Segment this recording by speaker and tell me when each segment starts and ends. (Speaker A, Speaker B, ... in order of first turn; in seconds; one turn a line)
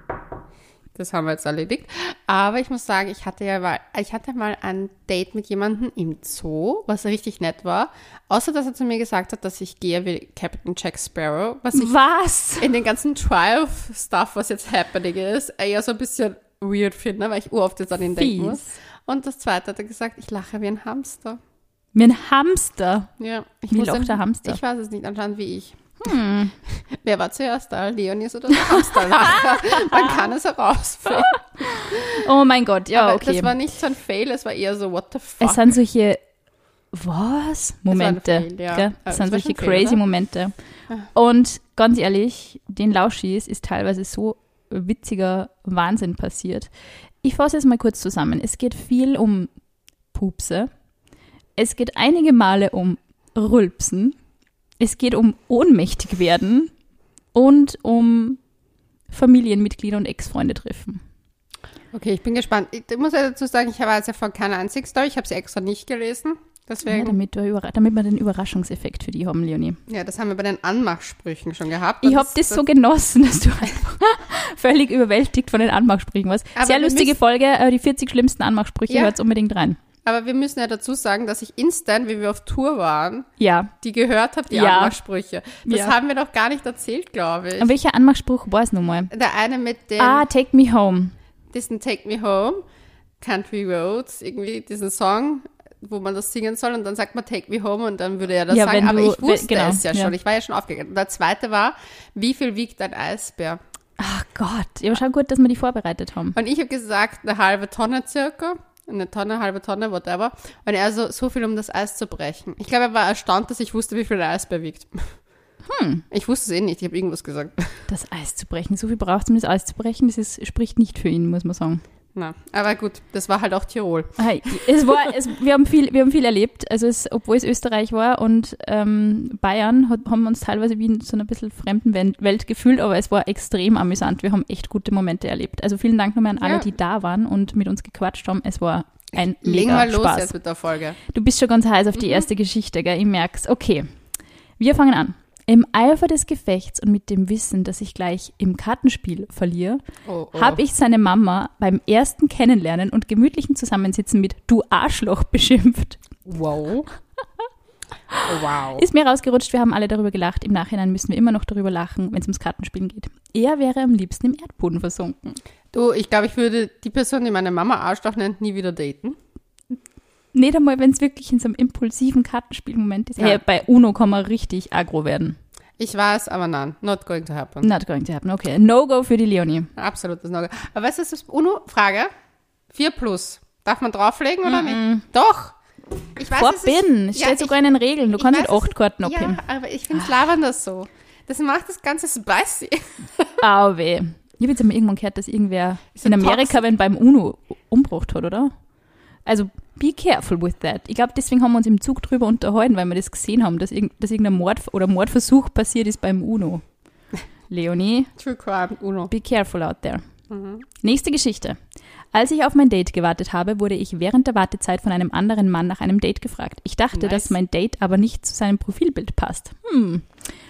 Speaker A: 0.9-11.9
Speaker B: 11.7-12.7
Speaker A: 12.6-21.4
Speaker B: 18.2-18.7
Speaker B: 21.9-23.1
Speaker A: 23.2-25.9
Speaker B: 23.7-24.6
Speaker B: 26.0-26.6
Speaker A: 26.7-32.2
Speaker B: 28.7-30.2
Speaker B: 31.2-33.6
Speaker A: 32.9-35.6
Speaker B: 35.4-36.2
Speaker B: 36.9-40.5
Speaker A: 37.9-40.0
Speaker B: 41.1-46.7
Speaker B: 47.2-49.5
Speaker B: 50.1-50.7
Speaker B: 51.6-54.2
Speaker B: 54.8-56.7
Speaker B: 57.3-58.4
Speaker B: 59.1-61.0
Speaker A: 61.9-67.2
Speaker B: 66.8-69.8
Speaker A: 69.9-72.6
Speaker B: 72.0-79.8
Speaker A: 76.5-77.1
Speaker A: 78.9-79.1
Speaker A: 80.0-83.3
Speaker B: 83.4-83.7
Speaker A: 83.8-87.7
Speaker B: 84.5-85.0
Speaker B: 85.7-85.9
Speaker B: 87.6-89.1
Speaker A: 89.1-90.2
Speaker B: 90.0-91.1
Speaker A: 91.5-92.6
Speaker A: 93.2-103.6
Speaker B: 98.5-100.1
Speaker B: 104.0-106.4
Speaker A: 106.3-115.2
Speaker B: 115.7-116.0
Speaker A: 116.1-117.8
Speaker B: 117.9-121.8
Speaker A: 122.1-124.6
Speaker B: 124.2-140.3
Speaker A: 136.4-136.7
Speaker A: 139.1-141.0
Speaker B: 141.1-143.8
Speaker B: 144.6-149.8
Speaker A: 150.1-150.6
Speaker B: 150.3-156.0
Speaker A: 156.2-156.9
Speaker B: 158.1-165.4
Speaker A: 158.2-158.8
Speaker A: 165.7-169.2
Speaker B: 170.3-175.4
Speaker A: 175.8-177.7
Speaker B: 177.6-179.7
Speaker A: 179.8-182.1
Speaker A: 182.7-185.6
Speaker B: 184.4-185.0
Speaker A: 186.2-187.6
Speaker B: 186.4-189.4
Speaker A: 188.1-193.4
Speaker B: 193.4-198.5
Speaker A: 195.9-196.6
Speaker B: 199.2-206.6
Speaker B: 207.5-208.1
Speaker A: 208.2-209.1
Speaker B: 209.1-210.0
Speaker A: 210.3-210.7
Speaker B: 210.8-211.6
Speaker B: 212.1-220.1
Speaker A: 216.9-217.3